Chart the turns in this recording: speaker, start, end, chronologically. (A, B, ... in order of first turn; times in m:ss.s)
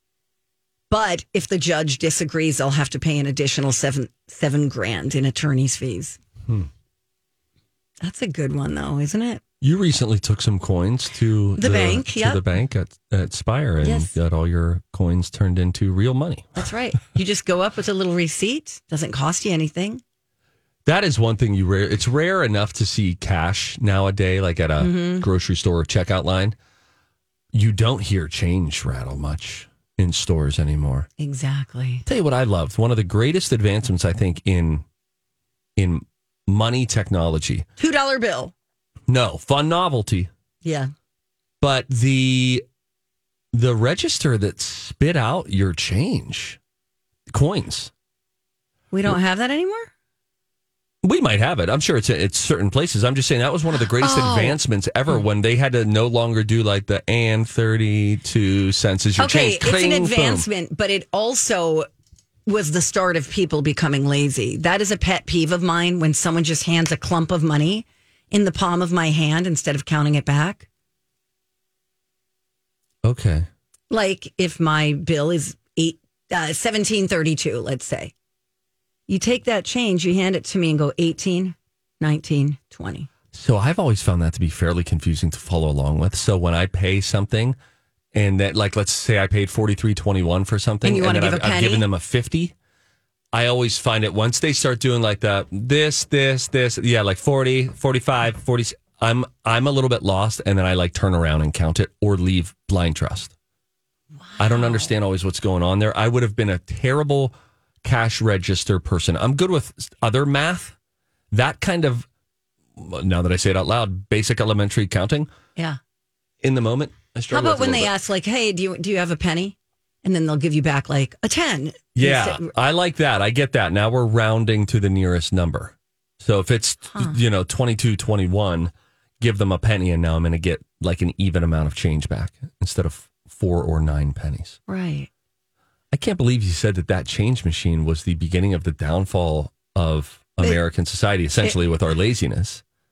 0:00.9-0:06.2 A
0:08.0-0:09.4 A
0:09.6-0:16.6 B
0:11.6-0:12.4 A
0:13.8-0:14.1 A
0:16.6-0:20.0 A
0:20.9-0:26.6 B
0:24.8-0:25.3 A
0:27.5-0:31.1 B
0:31.2-0:32.0 A
0:32.1-0:34.8 B
0:35.8-0:37.7 B
0:37.8-0:38.5 A
0:39.1-0:40.3 B
0:40.6-0:40.9 A
0:41.6-0:42.6 B
0:43.5-0:46.6 B
0:47.3-0:47.9 B
0:48.9-0:49.9 A
0:51.0-1:00.5 B
0:54.0-0:54.6 A
0:59.2-1:01.9 A
1:02.5-1:10.7 A
1:13.0-1:13.5 B
1:13.9-1:18.1 A
1:19.1-1:23.1 A
1:23.3-1:27.6 B
1:28.1-1:32.5 B
1:30.8-1:31.9 A
1:33.3-1:43.3 B
1:44.2-1:44.9 A
1:44.4-1:50.8 B
1:51.3-1:52.1 B
1:52.8-1:55.3 B
1:56.4-1:57.9 B
1:57.3-2:02.4 A
2:02.0-2:14.6 B
2:06.9-2:07.2 A
2:14.7-2:15.1 A
2:15.9-2:22.6 B